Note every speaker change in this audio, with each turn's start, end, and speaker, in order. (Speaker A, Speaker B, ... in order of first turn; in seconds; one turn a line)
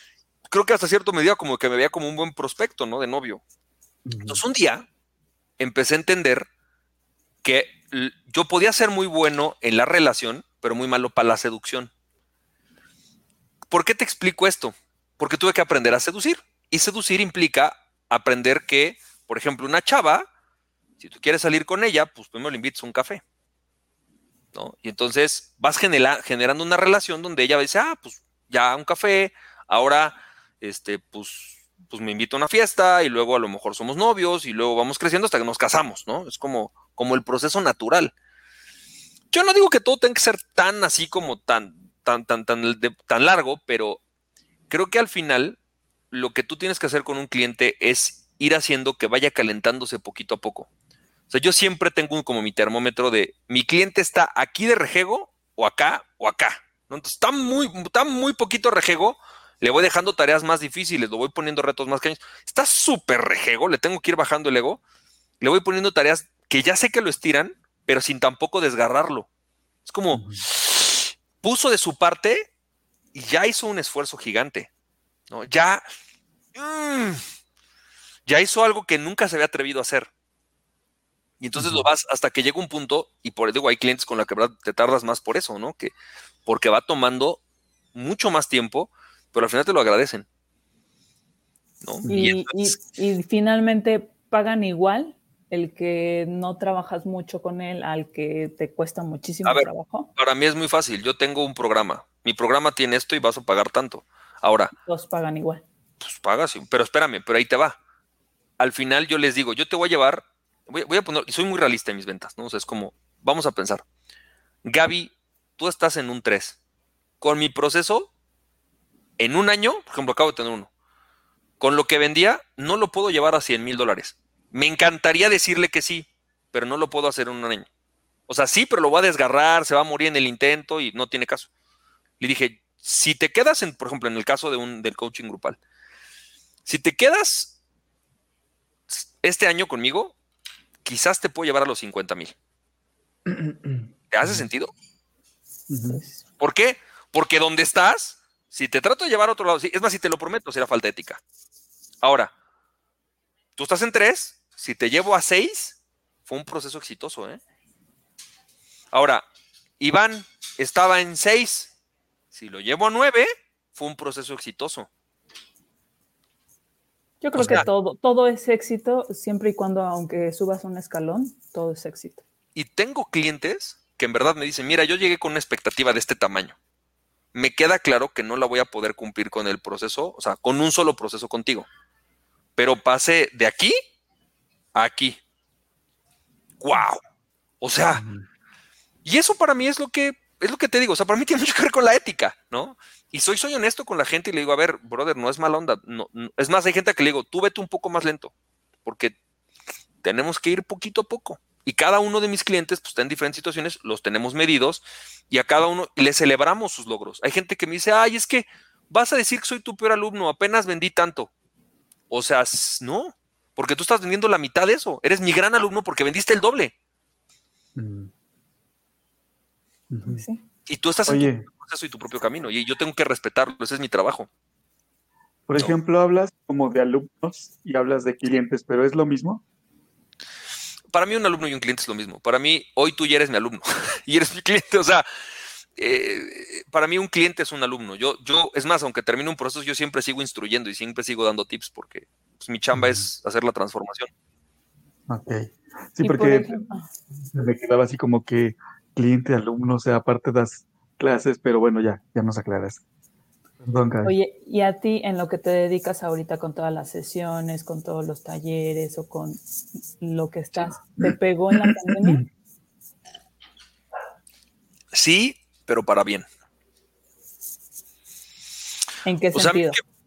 Speaker A: 0.5-3.4
Speaker B: 4.1-4.4
Speaker A: 4.3-4.9
Speaker A: 5.6-6.5
Speaker A: 7.4-11.9
Speaker A: 13.7-20.3
Speaker A: 21.0-23.2
Speaker A: 24.5-38.1
Speaker A: 39.3-44.0
Speaker A: 44.7-45.6
Speaker A: 46.1-50.7
Speaker A: 51.3-64.8
Speaker A: 65.4-69.3
Speaker A: 69.9-72.5
Speaker B: 70.1-70.4
Speaker A: 73.1-74.7
Speaker A: 75.3-75.8
Speaker A: 76.5-77.2
Speaker A: 78.3-80.1
Speaker A: 81.4-85.9
Speaker B: 81.6-81.9
Speaker A: 86.5-87.4
Speaker A: 87.9-90.3
Speaker A: 91.8-92.8
Speaker B: 92.0-92.3
Speaker C: 92.1-100.1
Speaker A: 99.5-104.7
Speaker C: 104.8-105.6
Speaker A: 106.0-107.8
Speaker A: 108.6-113.8
Speaker A: 114.7-116.6
Speaker A: 117.2-118.1
Speaker A: 119.2-120.7
Speaker A: 121.6-127.7
Speaker A: 128.3-131.5
Speaker A: 132.2-135.6
Speaker A: 136.7-137.5
Speaker A: 138.9-140.2
Speaker A: 140.8-142.3
Speaker B: 143.3-144.5
Speaker A: 144.1-144.7
Speaker B: 145.7-146.0
Speaker C: 145.8-146.2
Speaker A: 146.4-151.2
Speaker A: 152.0-152.3
Speaker A: 153.6-157.4
Speaker A: 158.9-159.3
Speaker A: 159.8-161.7
Speaker A: 162.3-164.9
Speaker C: 167.2-172.2
Speaker A: 167.3-167.7
Speaker A: 172.6-176.6
Speaker A: 177.3-181.7
Speaker A: 182.6-183.7
Speaker A: 184.8-185.2
Speaker A: 186.6-187.0
Speaker A: 187.6-188.0
Speaker B: 187.9-188.3
Speaker A: 189.1-198.3
Speaker A: 198.8-199.2
Speaker A: 200.0-211.3
Speaker A: 212.1-216.7
Speaker B: 217.8-218.1
Speaker B: 219.9-220.2
Speaker C: 220.1-220.4
Speaker A: 220.7-224.3
Speaker B: 221.1-221.4
Speaker B: 225.5-229.4
Speaker A: 230.9-235.1
Speaker A: 235.8-244.1
Speaker B: 242.7-243.0
Speaker B: 245.1-246.6
Speaker C: 246.0-246.9
Speaker B: 247.3-252.8
Speaker B: 253.6-254.1
Speaker C: 254.0-259.4
Speaker C: 260.0-262.2
Speaker B: 261.0-262.2
Speaker A: 264.9-266.3
Speaker C: 269.1-269.8
Speaker A: 269.3-269.8